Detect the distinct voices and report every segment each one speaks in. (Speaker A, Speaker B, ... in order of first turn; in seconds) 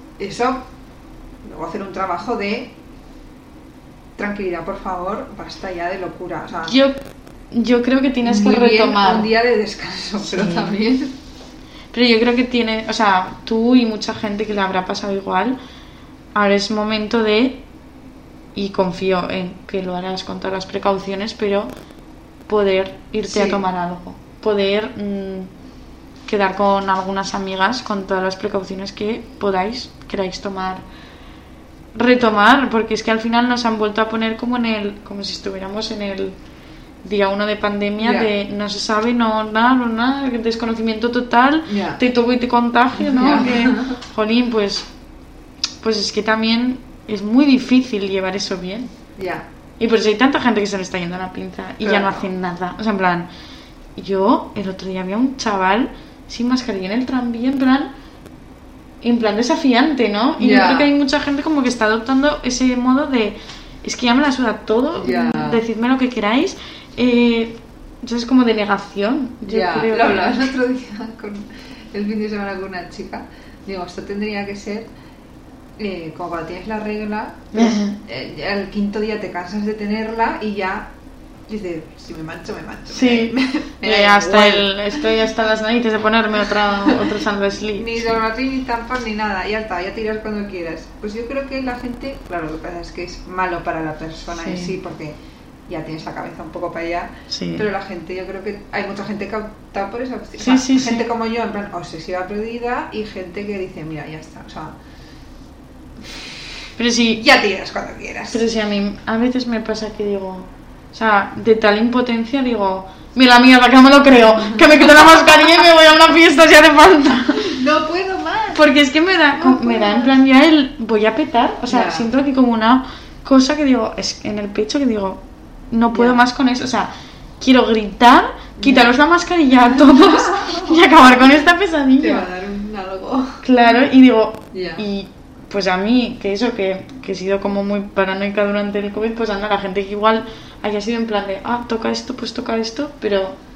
Speaker A: 0.2-0.7, 1.4-2.7, 4.2-6.8, 8.2-11.1, 23.2-23.6, 38.0-38.3, 41.7-42.0, 43.0-44.0, 49.2-49.5, 51.8-52.3, 60.4-60.9, 65.0-65.6, 69.5-74.9, 75.8-80.9, 81.5-85.0, 86.8-87.1, 87.8-95.2, 95.7-104.8, 107.1-108.4, 114.4-114.9, 117.3-118.7, 119.4-120.2, 121.7-122.1, 125.9-126.2, 128.6-128.9, 129.9-131.1, 132.0-133.4, 134.5-134.8
Speaker B: 6.7-7.0, 7.5-9.3, 10.2-10.8, 11.9-15.6, 16.3-17.6, 18.6-21.7, 22.5-25.5, 26.3-30.9, 31.9-36.4, 37.0-44.9, 45.8-48.9, 49.8-53.3, 54.0-57.9, 59.0-70.5, 77.5-78.0, 82.9-88.1, 94.3-94.8, 97.3-97.7, 100.4-101.1, 106.8-107.2, 108.3-117.6, 118.5-132.3, 133.4-143.4